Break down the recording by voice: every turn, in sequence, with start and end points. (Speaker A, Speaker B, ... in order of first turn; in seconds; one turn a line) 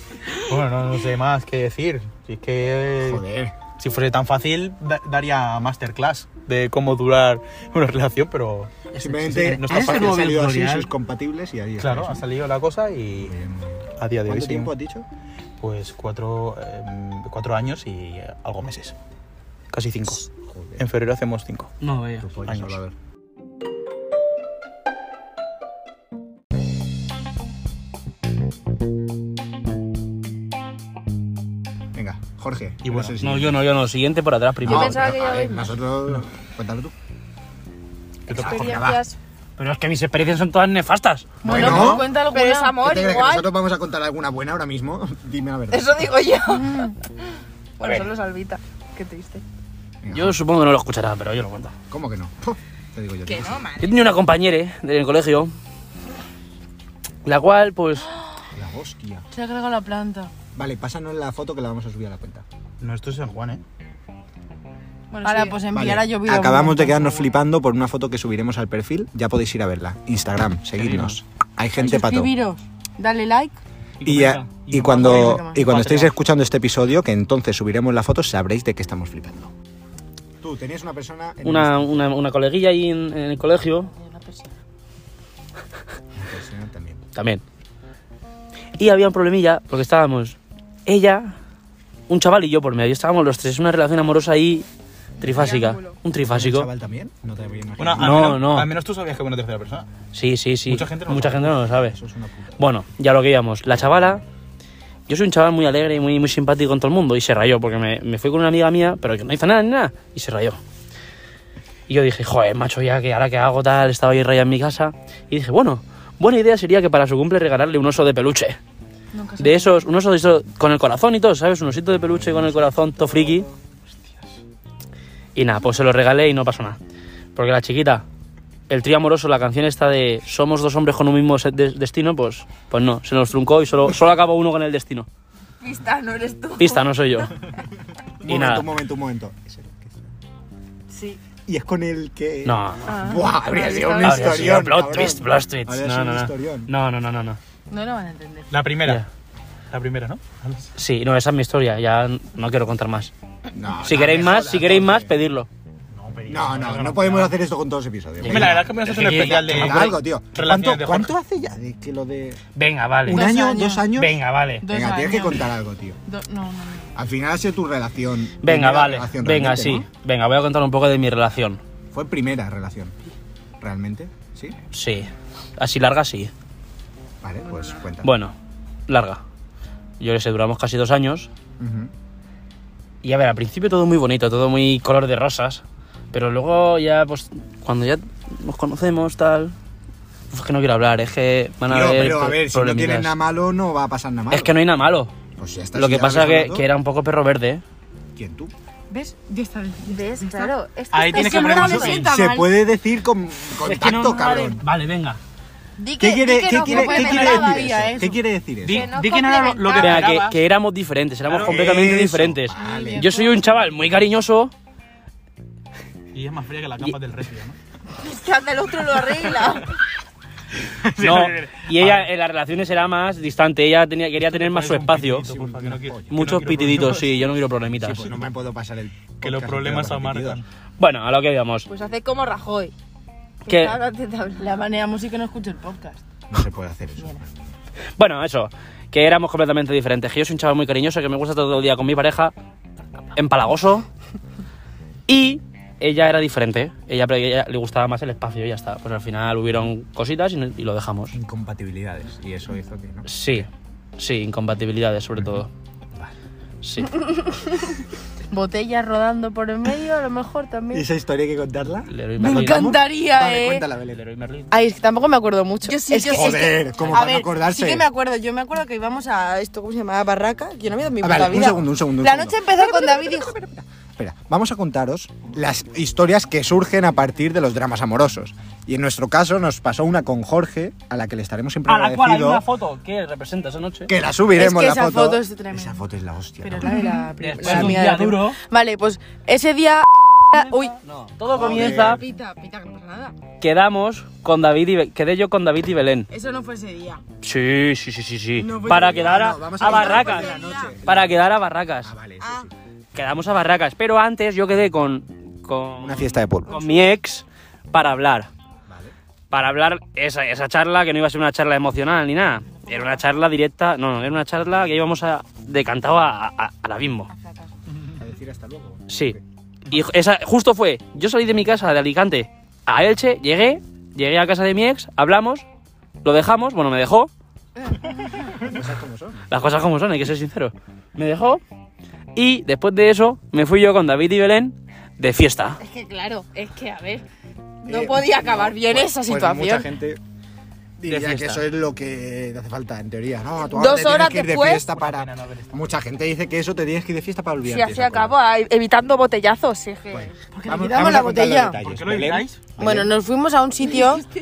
Speaker A: 0.3-3.2
Speaker B: 3.0-3.5
Speaker A: 3.8-8.7
Speaker C: 8.9-10.9
Speaker B: 9.0-12.2
Speaker A: 9.3-10.3
Speaker A: 11.8-13.3
Speaker B: 13.2-15.1
Speaker A: 14.0-14.7
Speaker A: 15.6-18.9
Speaker A: 19.7-21.7
Speaker B: 20.4-20.8
Speaker C: 21.8-22.3
Speaker B: 22.2-22.9
Speaker A: 22.4-22.8
Speaker B: 31.9-33.7
Speaker A: 32.8-33.1
Speaker C: 33.2-35.0
Speaker B: 34.6-36.9
Speaker D: 34.7-35.7
Speaker A: 38.3-38.8
Speaker D: 38.3-39.2
Speaker B: 38.3-39.0
Speaker C: 39.6-41.4
Speaker E: 41.4-42.8
Speaker B: 41.4-42.1
Speaker A: 41.5-42.0
Speaker D: 42.2-43.5
Speaker B: 42.8-46.0
Speaker D: 45.7-47.0
Speaker D: 47.8-49.4
Speaker B: 50.0-50.4
Speaker C: 50.1-51.7
Speaker B: 51.9-53.6
Speaker D: 53.2-54.1
Speaker C: 53.8-55.5
Speaker C: 57.2-58.1
Speaker B: 58.5-59.2
Speaker E: 59.3-60.3
Speaker B: 60.5-62.4
Speaker A: 62.8-63.6
Speaker D: 65.1-65.6
Speaker E: 65.2-67.3
Speaker B: 65.7-72.3
Speaker A: 70.8-71.1
Speaker E: 71.8-73.6
Speaker C: 74.0-74.5
Speaker B: 74.0-79.5
Speaker A: 74.7-76.1
Speaker E: 74.8-75.7
Speaker B: 80.4-82.0
Speaker C: 81.4-83.9
Speaker E: 83.8-84.5
Speaker B: 86.1-87.0
Speaker C: 87.1-87.4
Speaker C: 88.8-91.3
Speaker C: 92.1-94.7
Speaker C: 95.2-96.7
Speaker D: 95.2-96.0
Speaker B: 96.3-98.4
Speaker A: 97.8-99.9
Speaker C: 98.0-98.7
Speaker C: 100.1-102.0
Speaker A: 100.7-101.5
Speaker B: 101.3-102.6
Speaker C: 102.6-104.2
Speaker C: 105.1-110.6
Speaker C: 111.9-118.6
Speaker E: 119.1-119.9
Speaker C: 119.4-123.5
Speaker B: 122.0-123.4
Speaker C: 125.3-126.8
Speaker C: 127.3-128.0
Speaker C: 128.7-135.1
Speaker D: 135.6-137.3
Speaker C: 136.6-137.3
Speaker B: 138.2-140.1
Speaker C: 138.2-138.7
Speaker B: 141.5-146.7
Speaker C: 142.4-142.9
Speaker D: 142.8-144.3
Speaker C: 144.0-147.4
Speaker E: 147.7-148.5
Speaker A: 148.5-149.0
Speaker A: 149.7-150.7
Speaker C: 150.8-153.1
Speaker B: 153.5-155.1
Speaker C: 153.8-155.5
Speaker A: 153.8-154.6
Speaker A: 155.9-157.4
Speaker B: 156.3-162.4
Speaker C: 158.2-159.9
Speaker A: 158.2-161.2
Speaker C: 162.5-163.3
Speaker B: 163.1-166.0
Speaker E: 163.1-163.9
Speaker C: 163.9-164.7
Speaker E: 164.6-165.5
Speaker E: 166.1-167.0
Speaker B: 166.9-169.8
Speaker C: 168.4-171.6
Speaker B: 171.9-172.9
Speaker B: 173.6-174.6
Speaker C: 174.7-176.3
Speaker B: 177.2-178.1
Speaker E: 177.4-177.8
Speaker C: 178.0-178.3
Speaker C: 178.9-179.2
Speaker C: 180.0-181.3
Speaker B: 181.6-181.9
Speaker C: 183.0-189.5
Speaker C: 190.3-193.1
Speaker B: 191.7-194.5
Speaker C: 194.3-195.1
Speaker B: 195.4-196.7
Speaker C: 195.7-197.6
Speaker B: 198.1-198.5
Speaker E: 198.9-200.5
Speaker D: 199.9-201.9
Speaker A: 200.9-202.1
Speaker E: 201.1-202.5
Speaker B: 201.8-204.6
Speaker C: 203.6-205.2
Speaker D: 205.8-207.7
Speaker B: 206.0-208.9
Speaker E: 206.5-208.2
Speaker A: 208.6-210.3
Speaker D: 208.7-210.3
Speaker C: 209.7-214.5
Speaker A: 211.3-211.9
Speaker B: 211.4-213.1
Speaker E: 212.5-213.6
Speaker A: 216.1-217.6
Speaker D: 218.0-219.7
Speaker A: 220.8-222.1
Speaker C: 221.0-225.2
Speaker A: 224.2-227.3
Speaker B: 225.2-226.2
Speaker C: 226.1-228.1
Speaker B: 227.8-230.4
Speaker A: 229.2-230.4
Speaker C: 230.8-231.7
Speaker D: 231.7-232.7
Speaker D: 233.4-234.6
Speaker C: 233.5-233.8
Speaker E: 234.4-236.0
Speaker B: 236.3-237.3
Speaker C: 238.0-242.3
Speaker C: 243.1-243.8
Speaker C: 245.1-251.2
Speaker B: 251.1-253.1
Speaker C: 253.1-255.5
Speaker C: 256.6-257.0
Speaker E: 256.9-257.8
Speaker E: 258.3-260.8
Speaker B: 260.7-264.0
Speaker C: 261.9-262.7
Speaker E: 262.2-263.6
Speaker C: 263.9-264.5
Speaker E: 264.5-273.3
Speaker D: 265.6-266.6
Speaker B: 266.0-267.9
Speaker C: 266.8-267.1
Speaker B: 271.0-282.4
Speaker C: 281.6-283.9
Speaker B: 283.9-286.9
Speaker E: 284.4-285.8
Speaker E: 286.4-290.7
Speaker D: 286.6-287.1
Speaker C: 287.2-288.4
Speaker B: 287.4-287.8
Speaker C: 290.3-292.0
Speaker B: 291.3-292.0
Speaker E: 291.4-293.2
Speaker C: 293.4-296.1
Speaker E: 296.1-297.0
Speaker C: 297.2-301.9
Speaker E: 298.4-300.7
Speaker B: 298.6-301.2
Speaker B: 301.8-302.5
Speaker E: 302.2-302.5
Speaker C: 302.9-308.3
Speaker B: 305.8-306.6
Speaker E: 306.5-306.8
Speaker B: 308.7-308.9
Speaker C: 309.3-317.1
Speaker E: 312.5-313.0
Speaker E: 317.1-317.5
Speaker B: 317.9-319.2
Speaker C: 318.9-319.2
Speaker C: 319.7-325.4
Speaker C: 326.0-327.1
Speaker B: 328.4-329.3
Speaker C: 329.3-331.4
Speaker C: 332.1-335.6
Speaker D: 335.6-337.1
Speaker D: 337.6-339.7
Speaker B: 337.6-340.0
Speaker B: 340.8-348.1
Speaker C: 340.9-341.4
Speaker D: 343.5-344.6
Speaker A: 344.5-345.6
Speaker D: 347.4-350.1
Speaker B: 349.9-352.9
Speaker E: 350.3-351.6
Speaker A: 351.5-352.4
Speaker E: 352.6-354.1